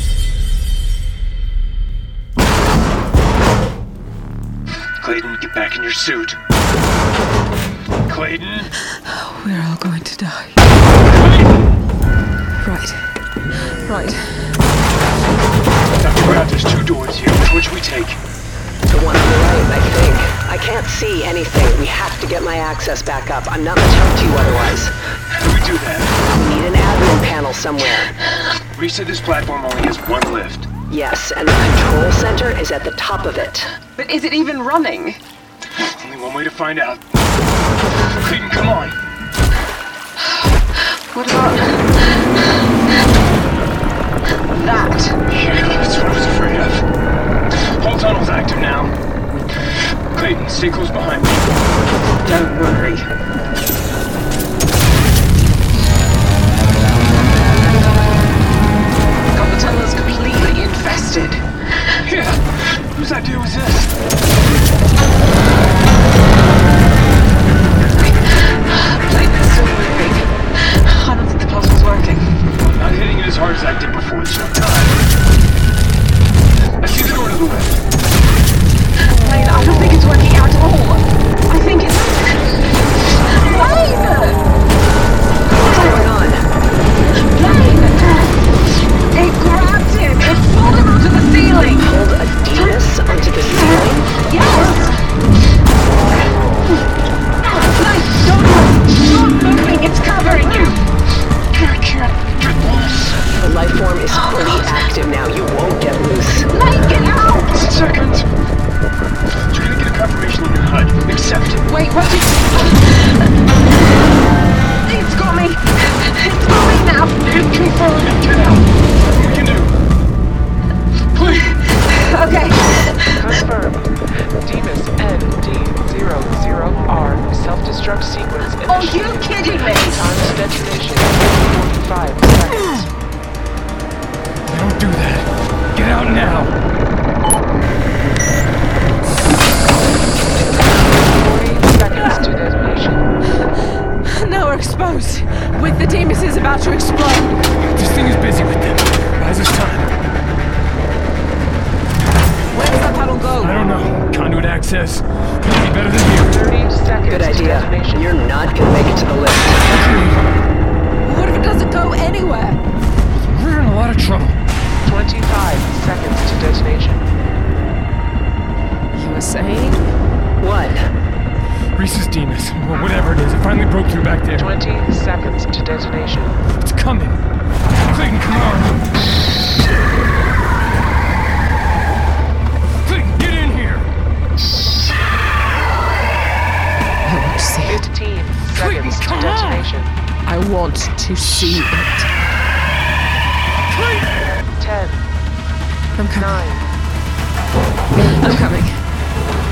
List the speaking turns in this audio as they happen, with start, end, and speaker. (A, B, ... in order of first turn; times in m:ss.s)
0:05.0-0:06.4 A
0:08.0-0:08.7 A
0:08.9-0:10.6 B
0:11.1-0:11.6 A
0:12.6-0:13.1 B
0:13.7-0:14.5 B
0:15.9-0:18.2 A
0:18.9-0:24.9 C
0:25.3-0:26.2 A
0:26.3-0:28.1 C
0:28.7-0:30.7 A
0:30.9-0:33.7 C
0:34.0-0:35.2 D
0:35.8-0:37.0 A
0:38.0-0:39.0 A
0:41.1-0:41.9 D
0:44.5-0:45.1 D
0:45.3-0:46.8 A
0:47.5-0:49.0 A
0:50.1-0:53.1 A
0:59.3-1:01.4 D
1:00.5-1:01.1 B
1:02.0-1:03.9 A
1:08.7-1:12.2 D
1:11.4-1:11.8 B
1:12.6-1:15.0 A
1:16.8-1:17.8 A
1:19.2-1:22.4 D
1:19.5-1:20.0 B
1:23.3-1:24.4 D
1:23.6-1:23.9 B
1:25.6-1:26.4 C
1:27.4-1:28.0 B
1:27.4-1:28.3 D
1:29.1-1:31.8 D
1:31.7-1:34.1 C
1:32.5-1:35.0 D
1:34.3-1:34.7 B
1:37.4-1:40.8 D
1:37.8-1:38.2 B
1:39.1-1:39.5 B
1:40.3-1:40.6 B
1:41.5-1:43.2 A
1:43.4-1:46.5 C
1:44.3-1:44.7 D
1:46.5-1:47.5 B
1:46.6-1:47.3 D
1:47.3-1:48.3 A
1:49.3-1:51.7 A
1:51.7-1:52.6 B
1:51.7-1:53.2 D
1:54.9-1:57.2 D
1:56.2-1:57.0 B
1:57.2-1:59.8 A
2:01.1-2:01.5 A
2:01.7-2:02.9 D
2:03.2-2:03.8 E
2:04.4-2:12.9 E
2:08.7-2:10.0 B
2:08.7-2:10.0 D
2:14.4-2:16.6 A
2:20.9-2:23.0 E
2:24.0-2:27.4 B
2:27.6-2:29.9 A
2:32.5-2:33.6 B
2:33.4-2:36.4 A
2:36.2-2:38.2 E
2:37.0-2:39.6 C
2:39.7-2:40.4 A
2:41.0-2:42.6 B
2:43.1-2:44.4 A
2:44.8-2:47.0 E
2:48.9-2:49.8 B
2:50.4-2:50.9 C
2:51.8-2:54.5 A
2:54.4-2:56.5 E
2:56.6-2:57.2 A
2:57.9-2:58.8 A
3:02.8-3:03.9 A
3:07.0-3:07.8 B
3:07.6-3:09.9 E
3:08.5-3:09.7 A
3:10.2-3:12.1 B
3:13.7-3:14.1 A
3:14.6-3:15.0 E
3:16.0-3:16.5 B
3:16.1-3:16.6 E
3:18.0-3:18.8 B